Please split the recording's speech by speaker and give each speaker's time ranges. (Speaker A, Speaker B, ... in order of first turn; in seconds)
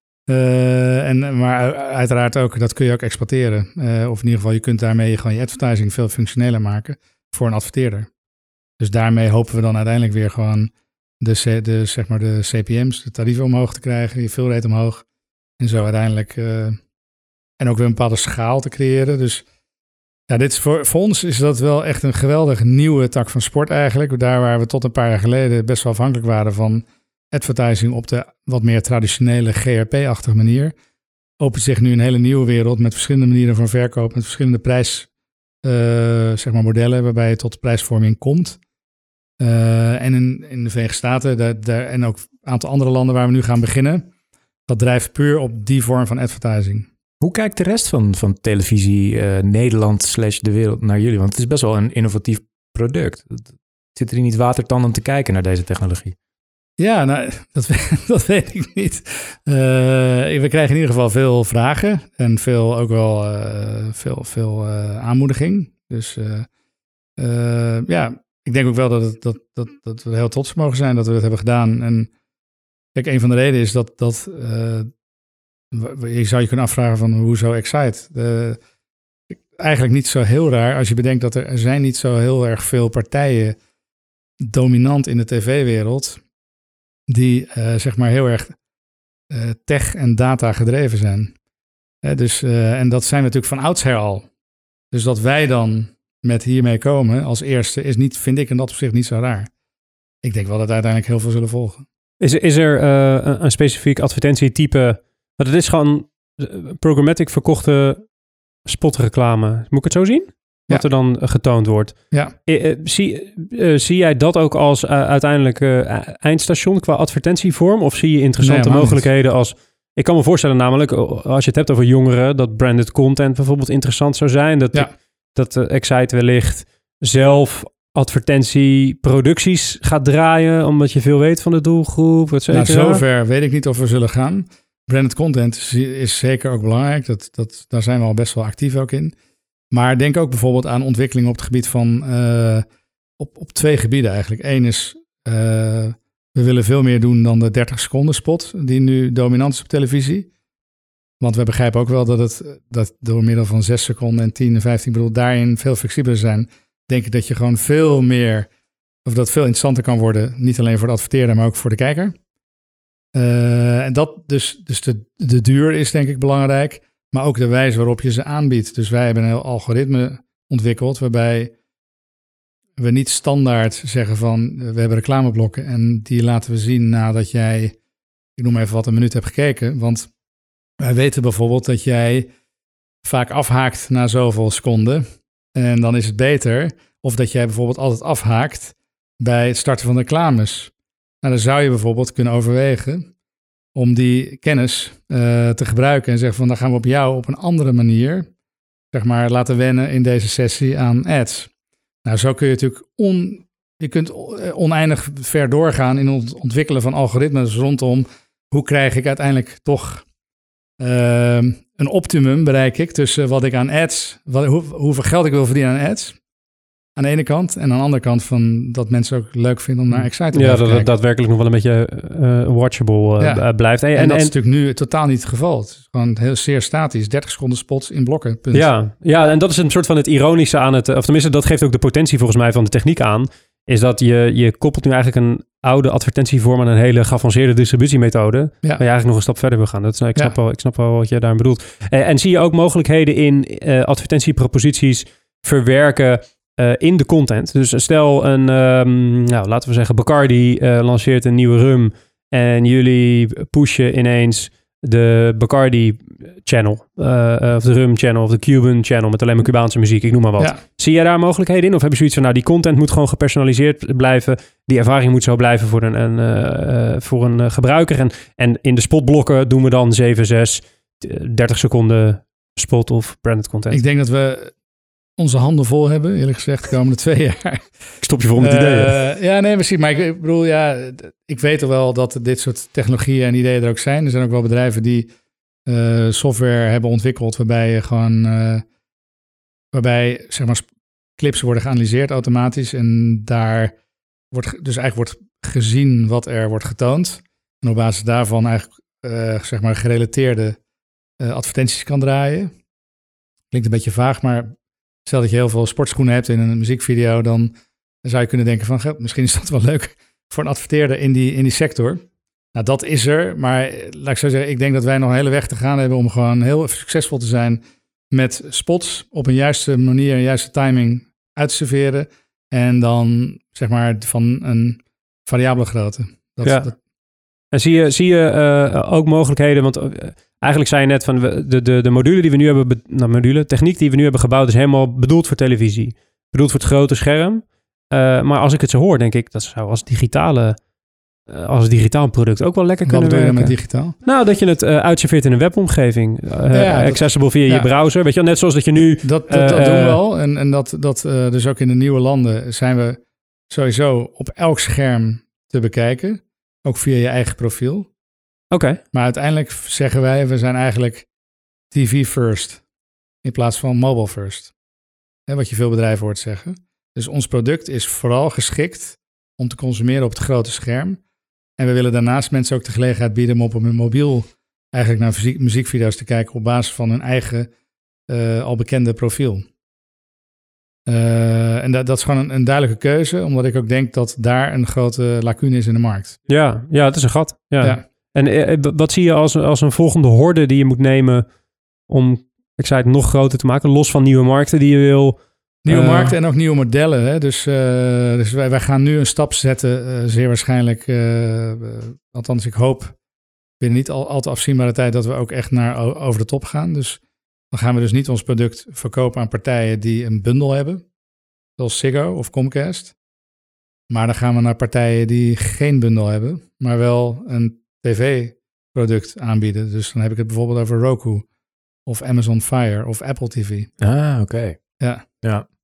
Speaker A: 0.3-8.1, 8.8-15.1, 15.6-16.8, 17.6-19.4, 20.3-30.8, 31.4-35.1, 35.6-38.6, 39.4-44.1, 44.7-46.9, 56.8-66.5, 67.2-72.1, 73.0-74.9, 75.7-78.6, 79.5-83.6, 84.4-86.2, 87.1-88.6, 89.3-91.3, 92.0-94.3, 94.9-99.5, 100.2-101.8, 118.4-119.1, 132.5-139.1, 139.7-142.7, 143.2-150.3, 151.2-158.5, 159.1-162.2, 163.2-171.5, 172.8-177.8, 178.4-180.1, 180.8-182.3, 183.0-193.1, 193.8-198.3, 198.9-201.5, 202.1-210.1, 210.8-216.2, 217.0-220.9, 223.2-228.7, 273.7-274.5, 275.2-285.1, 285.7-288.6, 289.7-293.8, 294.3-300.6, 301.2-302.5, 303.5-304.5, 305.1-326.8, 342.9-344.0, 346.5-347.7, 349.0-357.9, 358.9-361.1, 361.7-362.6, 363.2-364.5, 365.3-371.0, 371.6-377.5, 378.1-379.4, 380.9-386.2, 395.6-403.0, 403.6-410.9, 411.6-412.9, 413.9-421.3, 421.9-423.7, 424.8-425.1
Speaker B: 47.2-56.2, 423.8-425.5
Speaker C: 102.2-108.1, 108.7-133.0, 219.9-224.3, 228.5-273.8, 278.0-278.9, 326.4-326.7, 327.5-340.6, 341.3-350.0, 358.5-358.8, 386.3-391.3, 391.9-396.2